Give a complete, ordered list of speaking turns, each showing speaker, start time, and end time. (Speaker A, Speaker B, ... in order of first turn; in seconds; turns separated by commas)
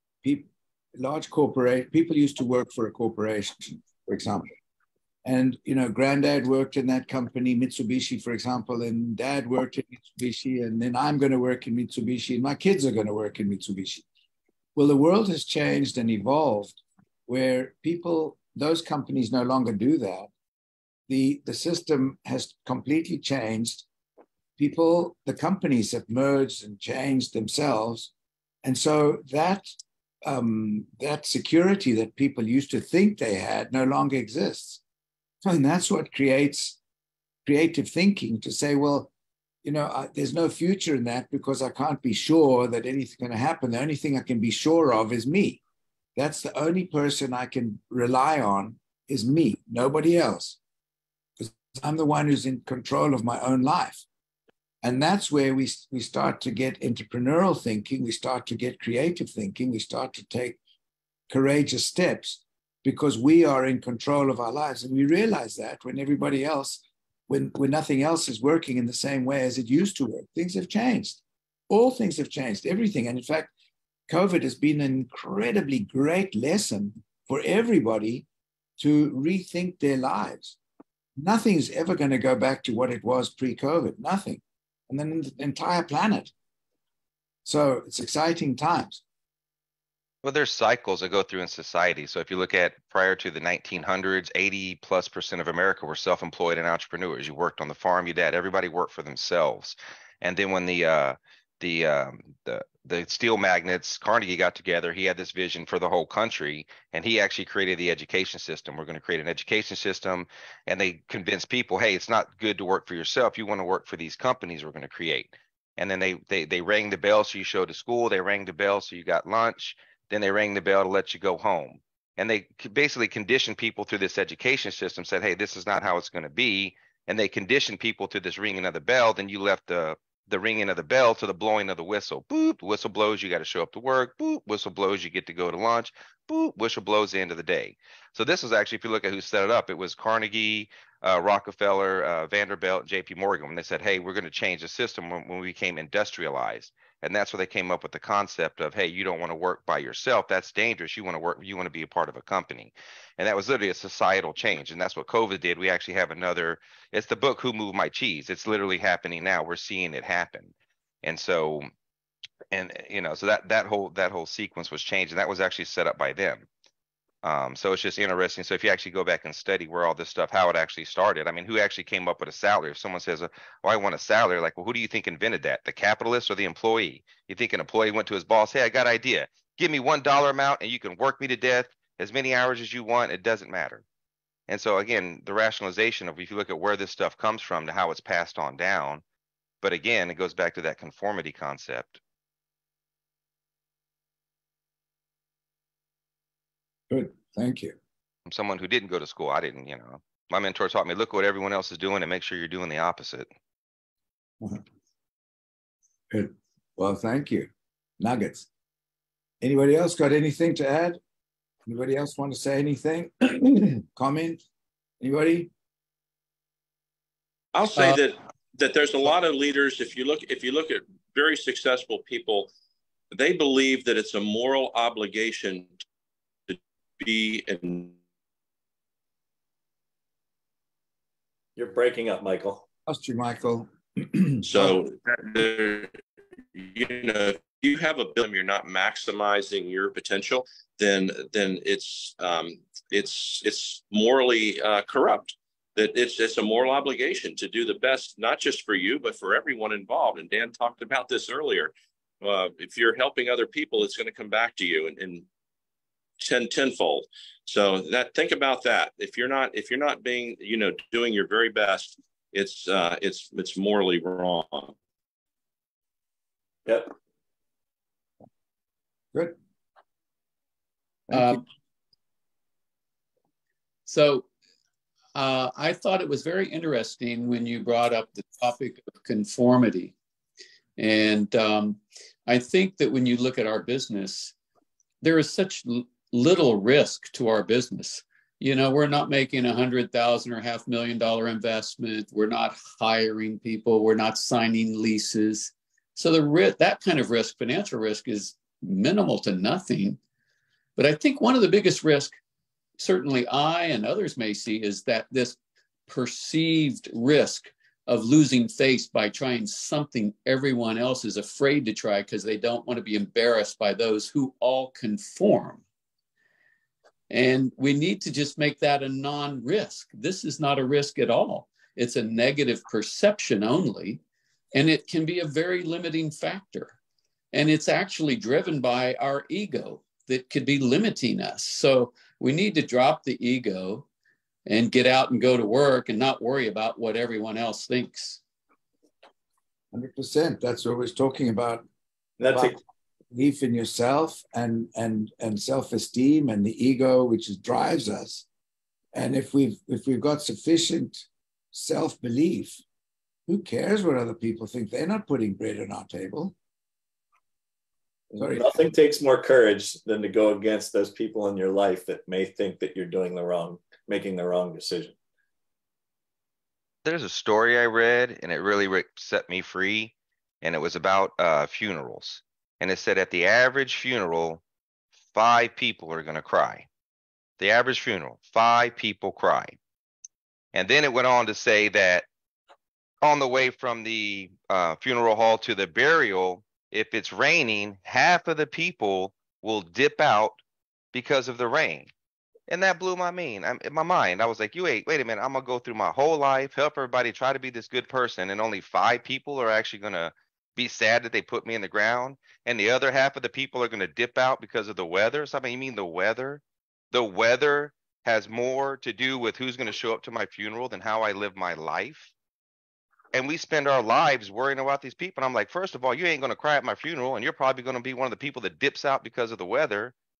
Speaker A: 0.2-4.5, Speaker A: 5.2-14.0, Speaker A: 14.8-20.3, Speaker A: 21.1-23.9, Speaker A: 24.6-28.1, Speaker A: 28.6-34.8, Speaker A: 35.4-36.8, Speaker A: 37.5-39.1, Speaker A: 39.6-45.6, Speaker A: 46.2-50.6, Speaker A: 51.4-54.0, Speaker A: 54.8-60.6, Speaker A: 61.3-73.5, Speaker A: 74.1-78.3, Speaker A: 78.8-80.6, Speaker A: 81.2-86.3, Speaker A: 87.5-89.0, Speaker B: 90.2-161.7, Speaker B: 162.5-166.5, Speaker B: 167.2-183.8, Speaker B: 184.5-189.0, Speaker B: 189.6-192.0, Speaker A: 196.9-197.8, Speaker B: 198.3-203.3, Speaker A: 206.1-208.5, Speaker A: 209.4-211.0, Speaker A: 211.7-214.4, Speaker A: 215.0-215.5, Speaker C: 217.5-222.5, Speaker C: 223.1-225.8, Speaker C: 226.5-228.0, Speaker D: 231.6-232.7, Speaker A: 232.9-234.8, Speaker C: 234.4-235.9, Speaker C: 236.5-255.3, Speaker C: 256.2-264.7, Speaker D: 266.7-266.9, Speaker A: 271.1-271.4, Speaker E: 271.1-271.4, Speaker E: 273.9-274.3, Speaker E: 275.1-279.9, Speaker E: 280.8-284.3, Speaker E: 285.0-300.0, Speaker E: 300.8-302.2, Speaker E: 302.8-315.6, Speaker E: 317.1-324.0, Speaker E: 324.5-326.8, Speaker E: 327.3-333.9, Speaker E: 334.5-338.2, Speaker A: 339.7-341.7, Speaker D: 342.2-342.6, Speaker A: 342.3-342.6, Speaker A: 343.1-348.3, Speaker A: 348.9-352.6, Speaker A: 353.3-356.4, Speaker D: 358.1-365.0, Speaker A: 358.2-358.6, Speaker B: 366.9-374.4, Speaker B: 375.1-376.7, Speaker B: 377.4-379.6, Speaker B: 380.5-382.1, Speaker B: 383.0-390.4, Speaker B: 390.9-391.9, Speaker B: 392.5-406.4, Speaker B: 406.9-412.1, Speaker B: 413.1-419.9